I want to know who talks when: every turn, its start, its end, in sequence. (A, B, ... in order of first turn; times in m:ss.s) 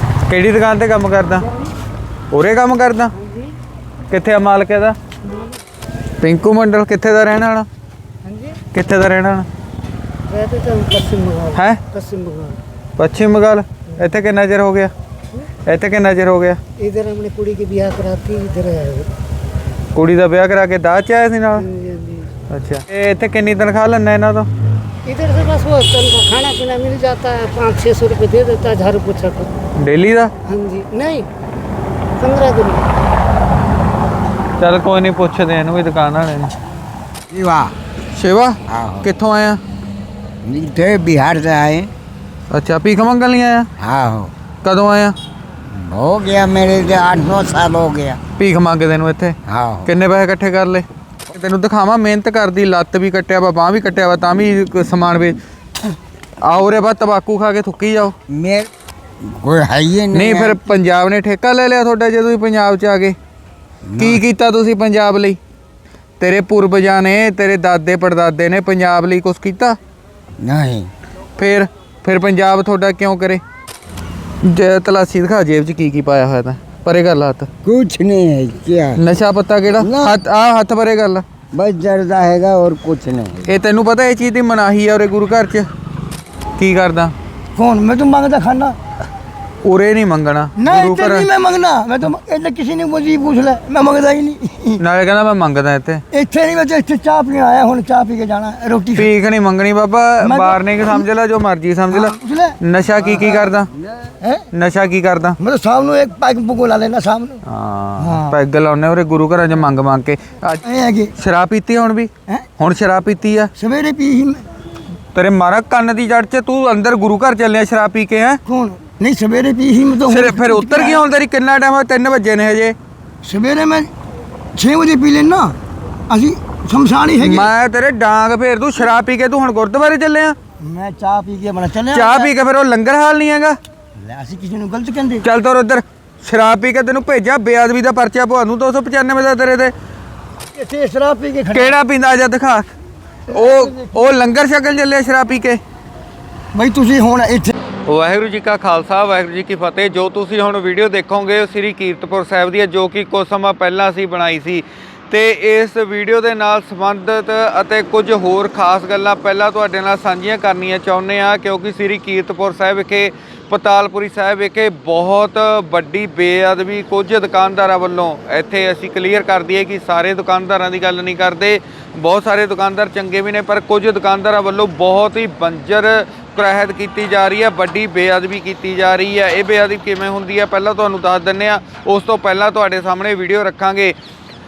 0:00.3-0:01.5 A
0:02.3-0:03.1 A
0:03.1-0:03.5 B
0:04.1-0:05.0 A
0:05.2-0:05.6 B
0:06.2-0:07.7 A
0:08.2-0:08.6 B
0:08.7-0:09.5 A
0:10.3-0:12.6 B
0:13.0-0:14.9 A
0:15.7-0:16.6 A
0:16.8-0:19.1 B
0:19.9-0:21.7 A
0:21.6-0:22.3 B
0:22.5-0:24.5 A
0:25.0-0:29.5 B
0:29.8-0:30.3 A
0:30.4-0:31.3 B
0:32.2-0:32.9 B
0:34.6-0:36.5 A
0:37.3-0:37.7 C
0:38.1-0:39.6 A
0:38.7-0:39.1 C
0:40.4-0:41.9 C
0:42.5-0:43.7 A
0:43.8-0:44.3 C
0:44.6-0:45.1 A
0:45.7-0:48.2 C
0:48.4-0:55.4 A
0:49.4-0:49.9 C
0:56.4-0:58.1 A
0:58.3-0:58.7 C
0:59.2-1:00.6 C
1:00.1-1:03.2 A
1:03.8-1:04.2 C
1:04.0-1:05.4 A
1:06.2-1:09.8 A
1:10.4-1:10.9 C
1:11.4-1:13.4 A
1:14.4-1:17.5 A
1:17.6-1:19.0 C
1:19.0-1:21.2 A
1:19.8-1:20.2 C
1:21.5-1:23.5 C
1:23.5-1:25.7 A
1:26.6-1:27.1 A
1:27.6-1:28.8 D
1:29.6-1:31.3 A
1:30.6-1:34.8 D
1:34.8-1:36.0 A
1:36.1-1:39.1 D
1:39.0-1:43.7 A
1:40.2-1:41.0 D
1:41.9-1:42.6 D
1:43.0-1:44.1 C
1:43.2-1:43.5 D
1:44.5-1:45.4 A
1:45.4-1:47.4 D
1:47.5-1:50.6 A
1:48.0-1:48.4 D
1:50.6-1:51.1 D
1:51.2-1:53.5 A
1:53.6-1:54.4 D
1:55.1-1:58.4 A
1:58.4-2:01.0 D
2:00.0-2:02.8 A
2:03.2-2:03.9 D
2:04.6-2:05.6 D
2:06.1-2:07.5 D
2:07.2-2:10.4 A
2:10.6-2:12.3 D
2:11.9-2:13.6 A
2:14.0-2:15.2 D
2:15.2-2:19.7 A
2:20.5-2:21.7 D
2:21.5-2:22.6 A
2:23.3-2:24.1 D
2:23.3-2:25.6 A
2:26.5-2:27.5 D
2:27.8-3:04.0 A